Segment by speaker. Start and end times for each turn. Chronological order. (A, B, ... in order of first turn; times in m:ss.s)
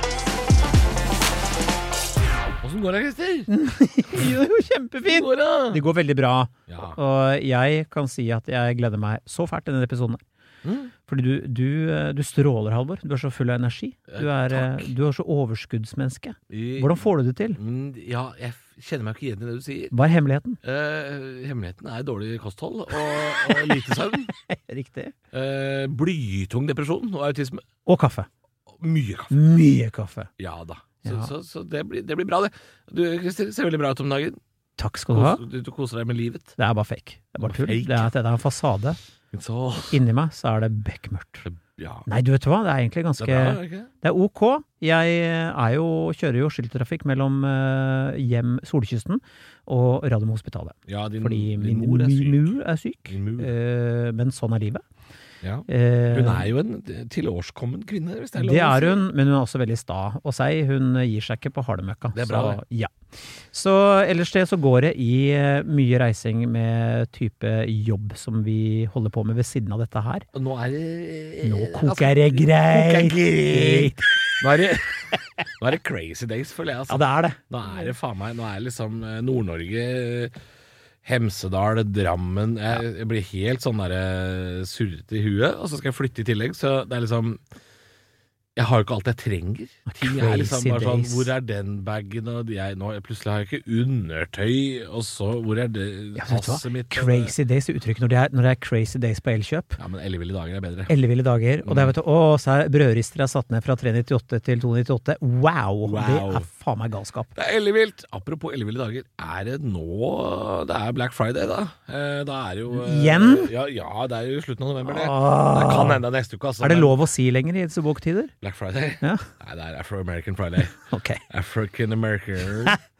0:02.6-0:03.5 A
0:03.5-0:10.2 B
0:04.1-0:04.4 A
0:05.0-0:05.8 A
0:06.7-0:07.0 A
0:10.6-0:10.9 A
0:11.0-0:17.6 B
0:14.1-0:14.9 A
0:16.5-0:19.9 A
0:19.9-0:20.6 B
0:20.6-0:24.3 A
0:24.4-0:25.1 B
0:25.3-0:27.6 A
0:27.8-0:28.3 B
0:28.8-0:29.3 A
0:29.3-0:30.3 B
0:30.4-0:34.4 A
0:31.0-0:31.3 B
0:34.8-0:35.4 B
0:35.1-0:36.5 A
0:36.6-0:39.0 B
0:37.4-0:38.1 A
0:39.3-0:40.0 A
0:39.9-0:41.4 B
0:41.5-0:42.1 A
0:42.1-0:54.8 B
0:43.2-0:43.9 A
0:50.9-0:52.6 A
0:53.1-0:53.5 A
0:55.4-0:59.0 A
0:55.7-0:56.5 B
0:58.4-1:02.9 B
1:02.1-1:02.6 A
1:03.5-1:10.3 B
1:10.3-1:20.3 A
1:11.4-1:14.0 B
1:16.9-1:17.4 B
1:21.0-1:27.4 A
1:28.6-1:37.3 A
1:29.9-1:31.3 B
1:36.2-1:39.8 B
1:39.8-1:40.9 A
1:40.9-1:47.3 B
1:41.6-1:41.9 A
1:45.8-1:46.4 A
1:47.4-1:57.0 A
1:52.7-1:53.5 B
1:54.8-1:56.0 B
1:56.6-1:58.3 B
1:58.4-2:00.8 A
1:59.0-1:59.3 B
2:00.8-2:01.2 B
2:01.3-2:02.8 A